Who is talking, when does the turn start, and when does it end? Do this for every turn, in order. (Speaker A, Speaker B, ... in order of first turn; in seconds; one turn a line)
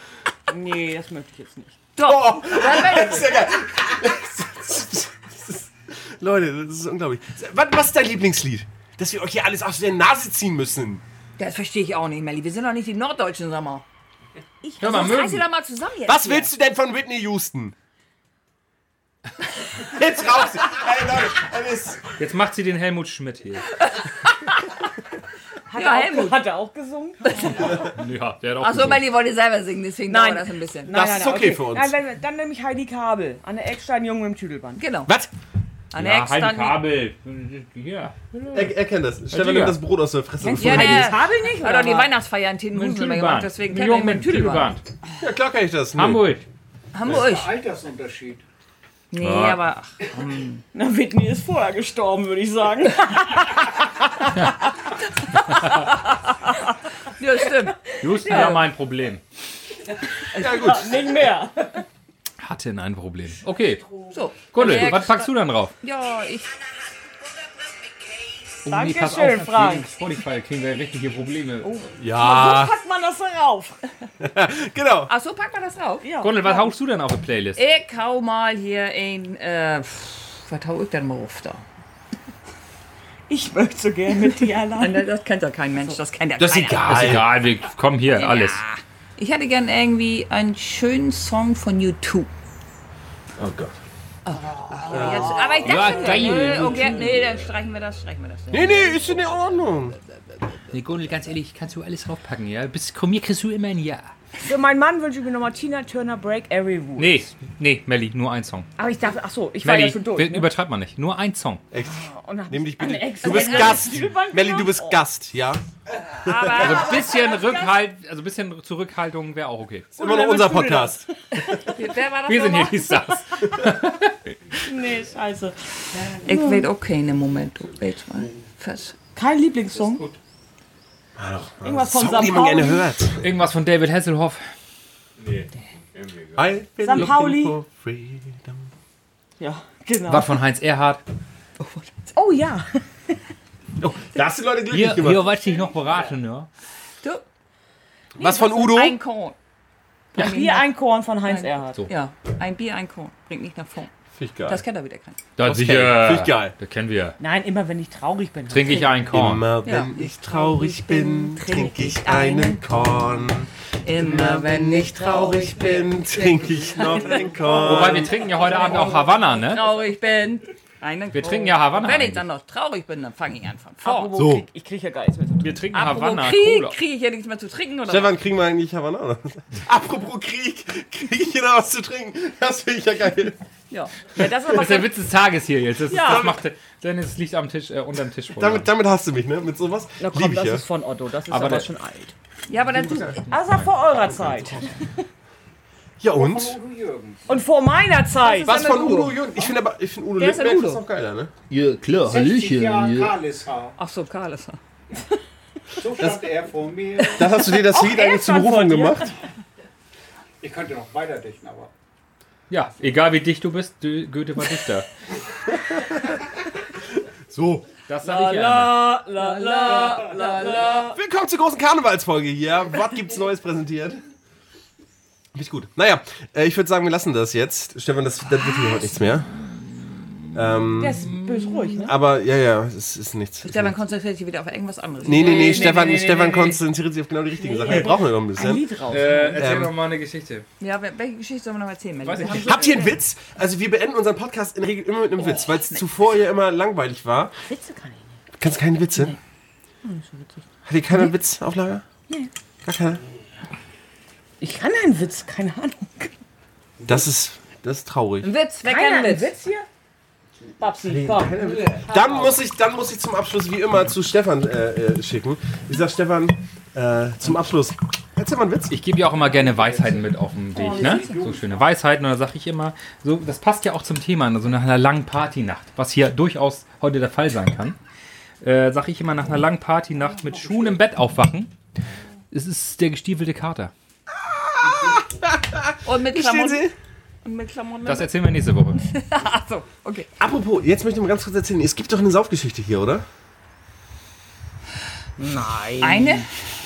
Speaker A: 0.5-1.8
Speaker B: 2.0-3.4
Speaker C: 2.0-11.0
Speaker B: 11.4-13.8
Speaker A: 14.6-15.4
Speaker D: 14.8-15.4
Speaker B: 14.8-16.5
Speaker C: 16.1-17.7
Speaker C: 19.8-22.1
Speaker D: 22.2-23.7
Speaker B: 23.9-24.7
Speaker A: 25.7-27.6
Speaker B: 25.7-26.4
Speaker B: 27.2-27.9
Speaker D: 27.6-29.1
Speaker B: 28.6-31.0
Speaker A: 30.1-34.8
Speaker C: 30.9-31.9
Speaker B: 34.8-35.1
Speaker C: 35.1-35.3
Speaker B: 35.9-36.8
Speaker D: 35.9-38.7
Speaker C: 38.5-41.2
Speaker D: 39.3-39.8
Speaker A: 40.4-42.1
Speaker B: 40.5-44.8
Speaker D: 42.7-44.8
Speaker C: 45.2-46.2
Speaker D: 46.0-46.4
Speaker B: 46.9-47.6
Speaker E: 47.0-48.4
Speaker B: 49.1-50.6
Speaker D: 49.2-49.6
Speaker A: 50.7-53.6
Speaker B: 55.5-58.6
Speaker D: 58.0-59.2
Speaker A: 58.2-58.6
Speaker B: 60.4-60.8
Speaker C: 60.4-61.0
Speaker A: 60.4-61.9
Speaker D: 62.4-63.9
Speaker B: 64.1-66.6
Speaker D: 64.5-65.7
Speaker D: 68.7-71.7
Speaker A: 68.7-69.9
Speaker A: 71.7-73.8
Speaker C: 72.0-72.7
Speaker C: 74.2-75.1
Speaker B: 75.1-76.1
Speaker A: 76.0-76.7
Speaker D: 76.2-77.6
Speaker B: 77.6-81.6
Speaker A: 83.3-85.1
Speaker B: 84.8-87.2
Speaker C: 86.4-87.3
Speaker D: 86.8-88.6
Speaker B: 88.1-92.3
Speaker C: 93.4-93.7
Speaker B: 94.3-99.1
Speaker A: 94.6-96.3
Speaker C: 94.9-95.6
Speaker D: 95.6-97.2
Speaker C: 98.5-100.0
Speaker D: 100.7-104.1
Speaker A: 104.4-107.3
Speaker D: 107.0-108.7
Speaker A: 108.8-110.5
Speaker D: 109.6-111.6
Speaker C: 111.7-115.6
Speaker A: 111.8-115.0
Speaker B: 113.2-113.9
Speaker B: 116.2-117.2
Speaker C: 116.2-116.7
Speaker A: 116.4-117.8
Speaker D: 116.5-119.9
Speaker C: 120.0-121.0
Speaker A: 120.0-121.7
Speaker B: 121.6-123.2
Speaker D: 122.2-124.2
Speaker A: 124.6-126.7
Speaker B: 126.2-129.0
Speaker A: 129.2-130.0
Speaker D: 129.8-130.2
Speaker C: 131.2-133.2
Speaker A: 131.6-132.9
Speaker D: 133.2-134.4
Speaker E: 135.2-136.5
Speaker C: 136.4-138.7
Speaker A: 136.8-137.6
Speaker A: 139.4-140.3
Speaker D: 140.1-141.0
Speaker B: 141.6-142.0
Speaker A: 142.1-143.1
Speaker C: 143.8-145.3
Speaker D: 144.7-146.5
Speaker E: 145.7-146.1
Speaker B: 148.2-149.4
Speaker C: 148.2-149.0
Speaker B: 150.2-150.7
Speaker A: 150.2-151.8
Speaker B: 151.3-153.9
Speaker C: 154.2-154.6
Speaker B: 154.5-155.2
Speaker D: 155.4-157.2
Speaker C: 155.4-156.5
Speaker A: 157.2-159.0
Speaker D: 158.5-159.5
Speaker C: 159.1-168.2
Speaker B: 159.7-163.3
Speaker B: 163.8-165.9
Speaker B: 166.8-167.9
Speaker D: 167.6-169.8
Speaker A: 168.4-169.0
Speaker B: 168.5-174.1
Speaker D: 171.1-172.2
Speaker A: 173.8-175.7
Speaker C: 174.2-174.4
Speaker D: 175.4-176.8
Speaker B: 175.7-178.1
Speaker C: 177.9-183.4
Speaker B: 183.7-183.9
Speaker A: 184.1-185.0
Speaker D: 184.5-188.7
Speaker A: 185.9-186.4
Speaker C: 186.0-186.3
Speaker C: 188.3-190.7
Speaker A: 190.0-192.1
Speaker D: 191.3-191.7
Speaker B: 192.5-193.3
Speaker D: 192.9-193.6
Speaker A: 193.3-194.8
Speaker C: 196.0-196.6
Speaker E: 196.1-197.4
Speaker A: 197.3-198.6
Speaker B: 198.2-199.4
Speaker C: 198.4-201.3
Speaker B: 200.2-200.8
Speaker D: 201.5-203.1
Speaker E: 202.0-203.8
Speaker B: 203.8-204.6
Speaker E: 205.8-207.3
Speaker C: 206.0-206.3
Speaker C: 207.1-209.1
Speaker A: 207.5-209.1
Speaker E: 210.4-211.7
Speaker D: 212.5-214.9
Speaker C: 215.5-216.2
Speaker C: 217.3-217.7
Speaker D: 217.9-219.1
Speaker A: 218.0-221.0
Speaker B: 219.2-220.9
Speaker C: 220.7-224.0
Speaker C: 225.3-229.3
Speaker D: 229.5-230.0
Speaker C: 230.3-231.1
Speaker A: 230.8-231.9
Speaker D: 231.0-231.8
Speaker C: 231.8-233.8
Speaker B: 233.4-236.0
Speaker C: 235.1-238.7
Speaker D: 235.1-236.6
Speaker A: 237.4-239.4
Speaker D: 238.9-240.5
Speaker C: 239.4-239.7
Speaker B: 240.6-243.0
Speaker D: 242.0-242.6
Speaker C: 242.4-247.3
Speaker B: 245.4-245.8
Speaker A: 247.5-248.1
Speaker C: 248.4-249.2
Speaker A: 249.8-250.4
Speaker C: 250.7-251.8
Speaker C: 252.7-253.0
Speaker A: 254.4-256.1
Speaker C: 256.8-258.3
Speaker B: 258.2-259.3
Speaker A: 258.6-259.7
Speaker A: 260.6-261.4
Speaker C: 260.9-268.8
Speaker E: 261.4-262.4
Speaker D: 268.7-277.8
Speaker E: 269.1-271.7
Speaker A: 270.6-271.1
Speaker B: 270.7-271.1
Speaker D: 278.4-281.5
Speaker D: 282.3-283.7
Speaker C: 284.1-286.7
Speaker B: 285.9-286.7
Speaker B: 287.2-288.1
Speaker D: 287.9-288.8
Speaker B: 288.8-290.1
Speaker C: 290.2-293.1
Speaker A: 295.2-296.2
Speaker B: 295.8-296.3